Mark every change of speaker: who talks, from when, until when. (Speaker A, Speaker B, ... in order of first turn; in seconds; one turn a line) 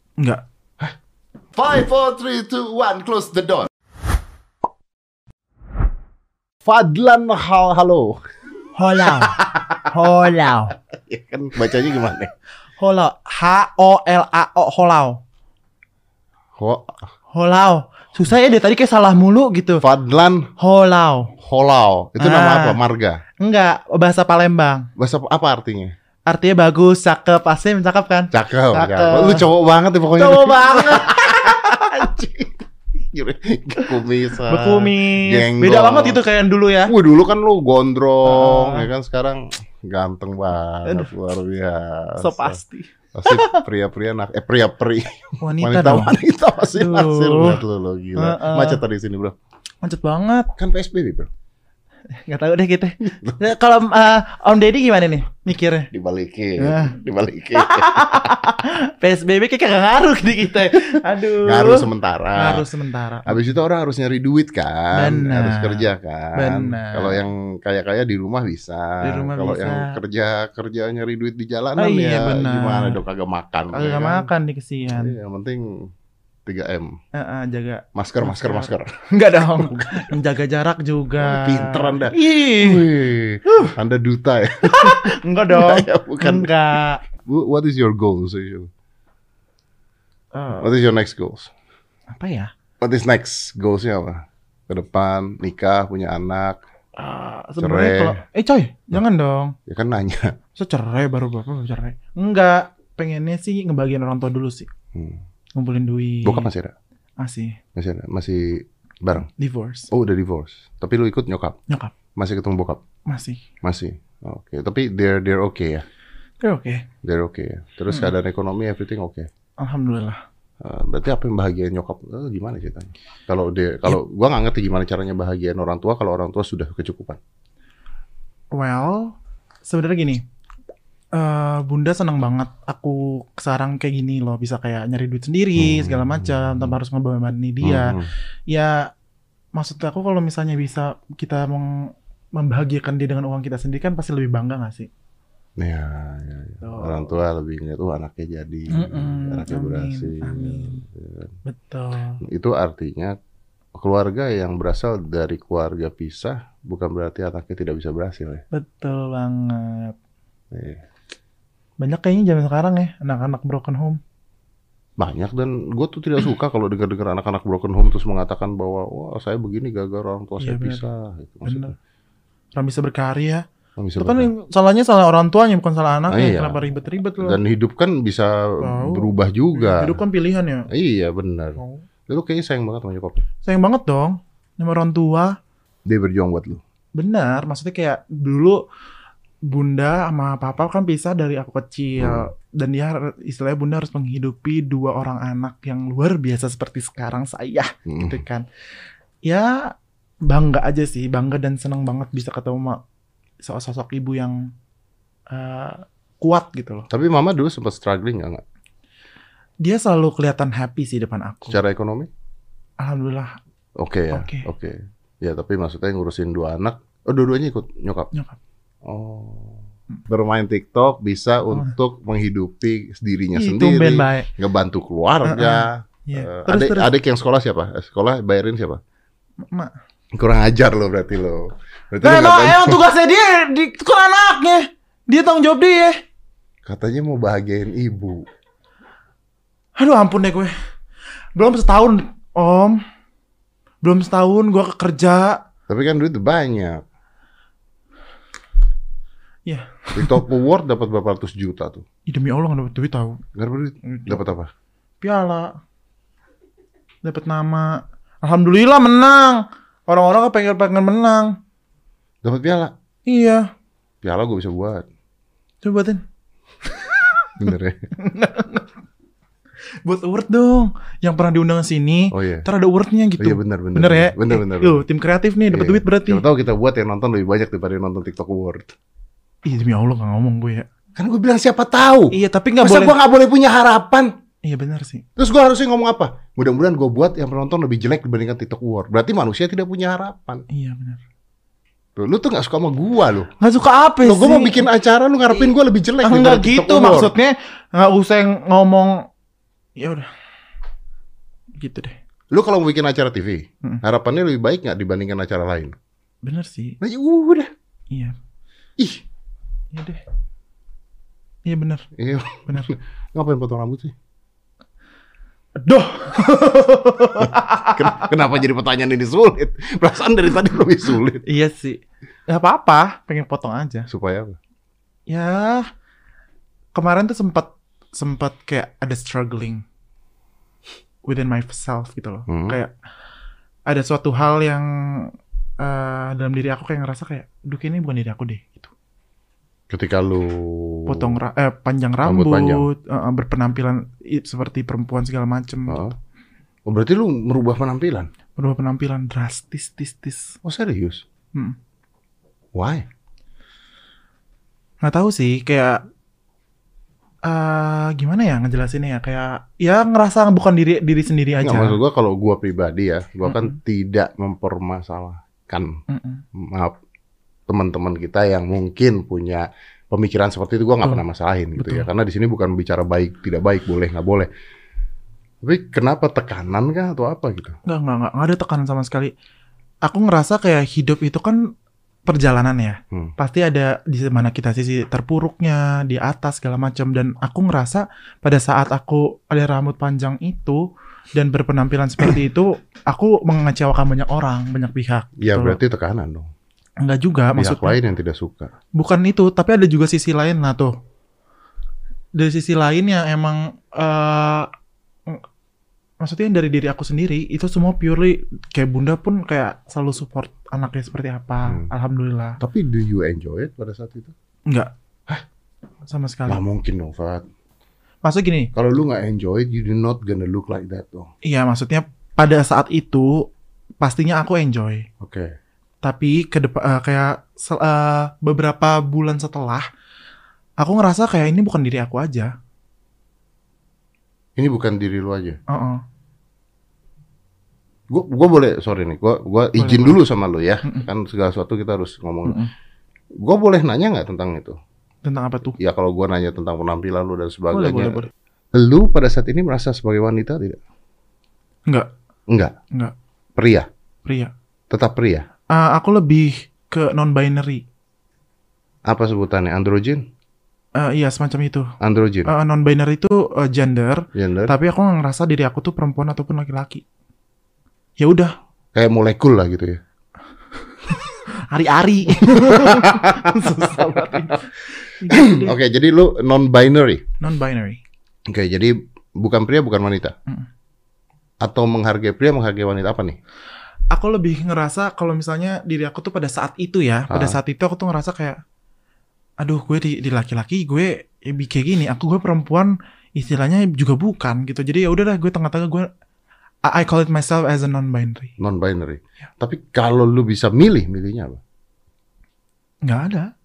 Speaker A: 0.2-0.4
Speaker B: 1.5-3.7
Speaker B: 6.6-8.2
Speaker A: 8.7-10.7
Speaker B: 9.1-9.9
Speaker B: 10.9-12.3
Speaker A: 12.8-15.2
Speaker B: 16.6-17.1
Speaker A: 17.3-19.8
Speaker B: 19.8-20.5
Speaker A: 20.6-21.3
Speaker B: 21.4-23.2
Speaker A: 22.2-22.8
Speaker A: 23.4-24.9
Speaker B: 25.0-25.9
Speaker A: 26.3-29.5
Speaker B: 28.3-36.2
Speaker A: 30.1-32.1
Speaker A: 34.5-36.9
Speaker B: 36.9-42.6
Speaker A: 38.2-38.9
Speaker A: 40.8-41.1
Speaker A: 42.2-43.6
Speaker B: 43.1-49.3
Speaker A: 45.4-46.2
Speaker A: 46.7-47.6
Speaker A: 48.1-48.8
Speaker A: 49.8-50.5
Speaker B: 50.6-51.3
Speaker A: 52.1-55.9
Speaker B: 53.0-53.4
Speaker B: 55.9-58.4
Speaker A: 56.6-57.0
Speaker A: 57.5-63.4
Speaker B: 61.4-62.6
Speaker B: 63.2-74.3
Speaker A: 64.9-67.2
Speaker A: 69.0-70.0
Speaker A: 71.8-73.0
Speaker A: 73.7-75.2
Speaker B: 74.9-75.9
Speaker B: 76.5-77.0
Speaker A: 77.1-82.9
Speaker B: 77.9-80.1
Speaker B: 81.2-86.5
Speaker A: 83.5-83.7
Speaker A: 84.6-87.0
Speaker B: 87.1-88.7
Speaker A: 90.3-90.7
Speaker B: 90.5-91.5
Speaker A: 92.1-92.5
Speaker B: 92.8-96.6
Speaker A: 97.0-99.6
Speaker B: 97.6-98.2
Speaker B: 99.7-100.3
Speaker A: 100.5-104.7
Speaker B: 104.9-105.2
Speaker A: 105.5-106.5
Speaker B: 106.2-106.7
Speaker A: 107.2-107.6
Speaker B: 107.7-109.3
Speaker A: 109.2-109.9
Speaker B: 109.9-111.6
Speaker A: 111.7-111.9
Speaker B: 112.1-112.8
Speaker A: 113.0-113.4
Speaker B: 113.6-115.9
Speaker A: 116.4-116.9
Speaker B: 117.0-119.3
Speaker A: 119.6-120.2
Speaker B: 120.6-127.2
Speaker A: 128.5-130.2
Speaker A: 131.1-138.9
Speaker B: 135.6-136.8
Speaker B: 137.6-138.1
Speaker A: 139.5-144.9
Speaker B: 145.6-151.4
Speaker A: 146.6-147.2
Speaker A: 148.7-150.8
Speaker A: 151.4-152.2
Speaker B: 152.2-153.2
Speaker B: 153.8-158.4
Speaker A: 158.5-159.9
Speaker B: 160.5-160.8
Speaker A: 161.8-164.0
Speaker B: 165.0-171.7
Speaker A: 170.4-170.8
Speaker A: 171.4-171.7
Speaker A: 172.5-173.4
Speaker B: 173.8-174.3
Speaker A: 174.0-177.4
Speaker B: 176.1-176.6
Speaker B: 177.2-180.0
Speaker A: 178.6-180.7
Speaker B: 180.7-183.2
Speaker A: 181.6-181.8
Speaker A: 183.4-185.4
Speaker B: 185.8-186.6
Speaker A: 186.9-188.6
Speaker A: 189.4-198.4
Speaker B: 192.0-192.3
Speaker B: 197.8-198.2
Speaker A: 199.2-199.7
Speaker A: 200.2-202.8
Speaker A: 203.4-204.5
Speaker A: 205.3-206.9
Speaker B: 206.9-208.4
Speaker A: 209.6-211.6
Speaker B: 211.4-212.1
Speaker A: 212.8-213.4
Speaker B: 213.8-218.1
Speaker A: 214.1-214.5
Speaker A: 218.1-218.4
Speaker B: 218.8-228.8
Speaker A: 223.3-224.3
Speaker A: 225.2-226.9
Speaker A: 229.4-229.7
Speaker B: 230.1-232.8
Speaker A: 232.0-236.0
Speaker B: 236.7-238.3
Speaker A: 239.8-240.5
Speaker A: 241.3-242.8
Speaker A: 243.8-245.4
Speaker B: 245.7-246.8
Speaker A: 249.4-250.2
Speaker B: 249.9-251.8
Speaker A: 252.1-253.2
Speaker B: 253.3-254.5
Speaker A: 253.8-254.2
Speaker A: 255.0-255.6
Speaker A: 257.0-261.4
Speaker B: 262.2-262.7
Speaker A: 263.1-263.5
Speaker B: 264.0-264.9
Speaker A: 265.6-266.0
Speaker A: 266.6-268.7
Speaker B: 267.4-267.9
Speaker A: 269.8-276.2
Speaker B: 272.1-272.5
Speaker B: 273.2-274.8
Speaker B: 275.5-278.7
Speaker A: 279.4-280.7
Speaker B: 281.0-284.1
Speaker A: 282.1-282.9
Speaker A: 284.4-285.0
Speaker B: 285.1-290.4
Speaker A: 290.5-291.0
Speaker B: 291.9-293.3
Speaker A: 293.4-294.7
Speaker B: 294.0-297.1
Speaker A: 296.0-299.1
Speaker A: 299.8-300.1
Speaker A: 301.6-302.0
Speaker B: 302.3-305.7
Speaker A: 306.2-306.8
Speaker B: 306.8-307.5
Speaker A: 307.9-308.2
Speaker B: 308.8-309.0
Speaker A: 309.7-310.0
Speaker A: 311.4-311.9
Speaker B: 311.9-313.9
Speaker A: 312.5-312.7
Speaker A: 315.6-318.1
Speaker B: 317.2-321.2
Speaker A: 321.2-323.9
Speaker B: 323.9-324.4
Speaker A: 325.1-325.7
Speaker A: 326.7-329.6
Speaker A: 331.0-332.7
Speaker B: 332.3-332.6
Speaker A: 333.7-338.7
Speaker B: 339.7-341.2
Speaker A: 340.9-345.8
Speaker B: 342.0-342.7
Speaker B: 345.7-345.9
Speaker B: 346.6-348.1
Speaker A: 348.4-350.3
Speaker B: 350.4-351.0
Speaker B: 352.5-352.9
Speaker A: 354.8-355.8
Speaker A: 357.2-361.8
Speaker B: 361.4-365.8
Speaker A: 363.2-363.6
Speaker A: 365.9-366.2
Speaker B: 366.3-366.8
Speaker B: 367.5-374.3
Speaker A: 371.6-371.9
Speaker B: 375.4-377.6
Speaker A: 377.6-379.1
Speaker A: 379.8-381.5
Speaker A: 382.1-395.6
Speaker B: 395.2-396.3
Speaker A: 396.8-397.8
Speaker B: 397.3-398.5
Speaker A: 398.7-400.8
Speaker A: 402.1-404.5
Speaker A: 406.0-412.4
Speaker B: 411.4-411.7
Speaker B: 412.4-414.1
Speaker A: 414.5-414.7
Speaker A: 415.9-416.4
Speaker B: 416.3-417.2
Speaker A: 418.0-418.5
Speaker B: 418.5-421.1
Speaker A: 421.2-424.9
Speaker B: 425.0-425.3
Speaker A: 425.8-429.7
Speaker A: 430.6-432.3
Speaker B: 434.4-435.4
Speaker A: 435.5-435.8
Speaker B: 437.9-442.4
Speaker A: 439.6-440.0
Speaker A: 442.2-442.5
Speaker B: 443.2-444.6
Speaker A: 445.0-445.6
Speaker B: 445.5-448.0
Speaker A: 447.5-448.1
Speaker B: 448.5-450.6
Speaker B: 452.3-452.5
Speaker B: 453.4-453.7
Speaker A: 454.0-454.3
Speaker B: 454.7-455.3
Speaker A: 455.5-457.6
Speaker B: 458.9-460.1
Speaker A: 460.8-461.7
Speaker B: 461.8-462.3
Speaker A: 462.2-466.8
Speaker B: 464.1-464.5
Speaker A: 468.0-468.3
Speaker B: 468.7-469.8
Speaker A: 470.9-475.5
Speaker B: 472.2-473.8
Speaker B: 475.0-477.0
Speaker A: 477.2-477.8
Speaker B: 478.3-480.1
Speaker B: 481.4-483.2
Speaker A: 483.9-488.4
Speaker B: 487.1-487.4
Speaker A: 489.4-495.9
Speaker A: 496.6-498.3
Speaker B: 498.4-501.4
Speaker A: 502.8-503.3